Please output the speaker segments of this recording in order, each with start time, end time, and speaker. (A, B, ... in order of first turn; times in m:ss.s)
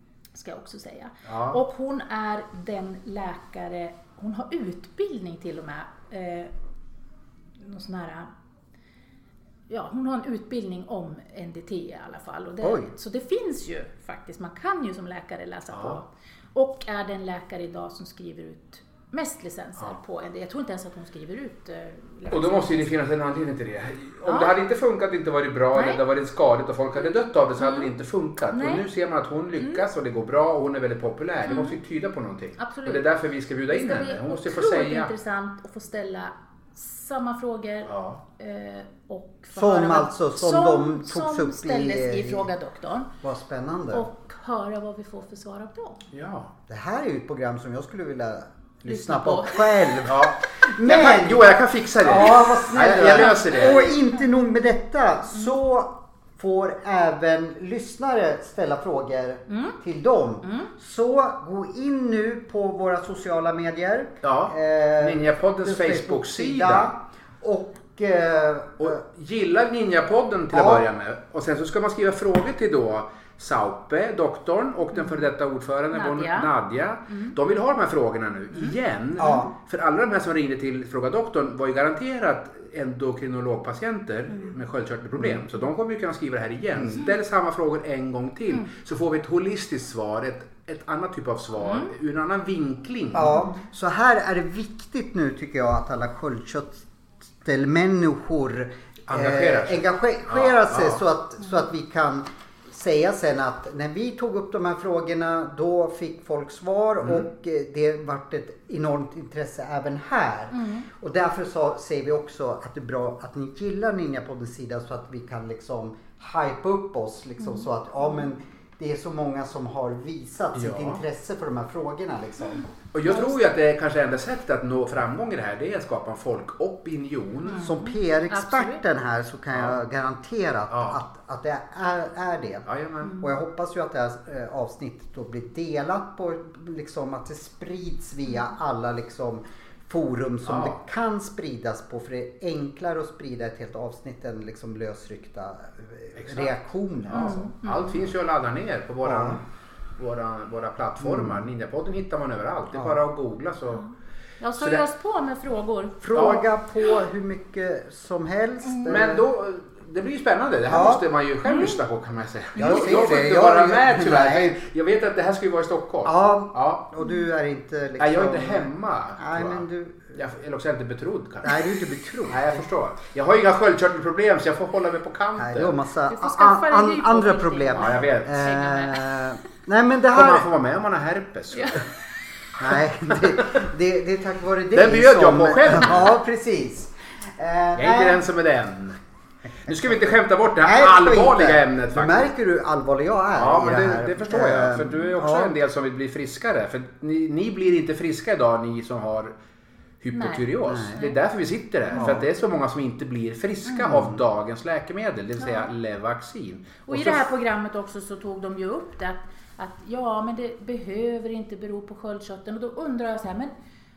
0:00.3-0:06.5 A
0:01.2-0:01.6 B
0:07.6-0:08.3 A
0:09.7-0:22.9 A
0:12.6-0:12.9 C
0:15.7-0:16.0 B
0:22.3-0:35.1 B
0:24.2-0:24.5 A
0:25.7-0:26.0 A
0:27.6-0:27.9 A
0:28.5-0:28.8 A
0:29.6-0:29.8 A
0:31.5-0:31.8 A
0:32.6-0:33.1 A
0:33.7-0:43.1 A
0:37.8-0:38.2 B
0:39.5-0:42.5 C
0:43.2-0:44.1 C
0:43.9-0:46.0 A
0:46.1-0:46.5 B
0:46.7-1:09.0 C
0:48.8-0:50.0 A
0:50.0-0:53.8 B
0:53.1-0:53.9 A
0:59.5-0:59.8 A
1:00.4-1:00.7 A
1:04.2-1:06.9 B
1:08.8-1:33.4 B
1:10.5-1:10.8 C
1:14.9-1:15.3 A
1:15.9-1:16.5 A
1:17.1-1:17.4 A
1:18.5-1:19.5 A
1:19.2-1:19.5 C
1:25.2-1:25.4 C
1:31.6-1:31.9 A
1:33.1-1:36.8 C
1:33.3-1:33.6 A
1:37.4-2:02.7 C
1:39.1-1:41.0 B
1:47.0-1:47.3 B
1:50.5-1:50.8 A
1:57.4-1:58.2 A
2:00.5-2:01.0 B
2:02.9-2:07.7 B
2:03.1-2:03.4 A
2:07.5-2:08.8 A
2:07.5-2:12.7 C
2:09.5-2:09.8 B
2:10.7-2:11.0 B
2:12.6-2:13.1 B
2:13.0-2:13.3 A
2:13.2-2:27.5 C
2:20.4-2:20.8 B
2:26.2-2:29.4 B
2:27.1-2:28.0 A
2:29.0-2:29.4 C
2:30.0-2:33.8 B
2:31.0-2:31.4 C
2:32.7-2:33.0 C
2:34.4-2:36.0 A
2:34.6-2:34.8 B
2:36.0-2:39.2 C
2:36.1-2:36.5 B
2:38.6-2:39.0 A
2:38.8-2:46.8 B
2:40.6-2:41.1 C
2:41.4-2:41.8 A
2:42.6-2:44.6 C
2:46.0-2:50.2 C
2:48.0-2:51.6 B
2:51.4-2:52.6 C
2:52.3-2:55.8 B
2:55.4-3:00.5 C
2:56.1-2:59.1 A
2:57.8-2:58.5 B
3:00.1-3:01.8 B
3:01.5-3:01.9 A
3:02.6-3:08.2 C
3:04.7-3:06.2 B
3:07.8-3:09.0 B
3:09.6-3:12.3 B
3:09.7-3:10.0 C
3:10.6-3:15.5 C
3:13.4-3:19.3 B
3:20.0-3:27.2 B
3:20.1-3:21.2 A
3:20.6-3:21.0 C
3:21.9-3:22.3 C
3:23.8-3:24.2 C
3:25.4-3:25.7 A
3:26.8-3:33.5 A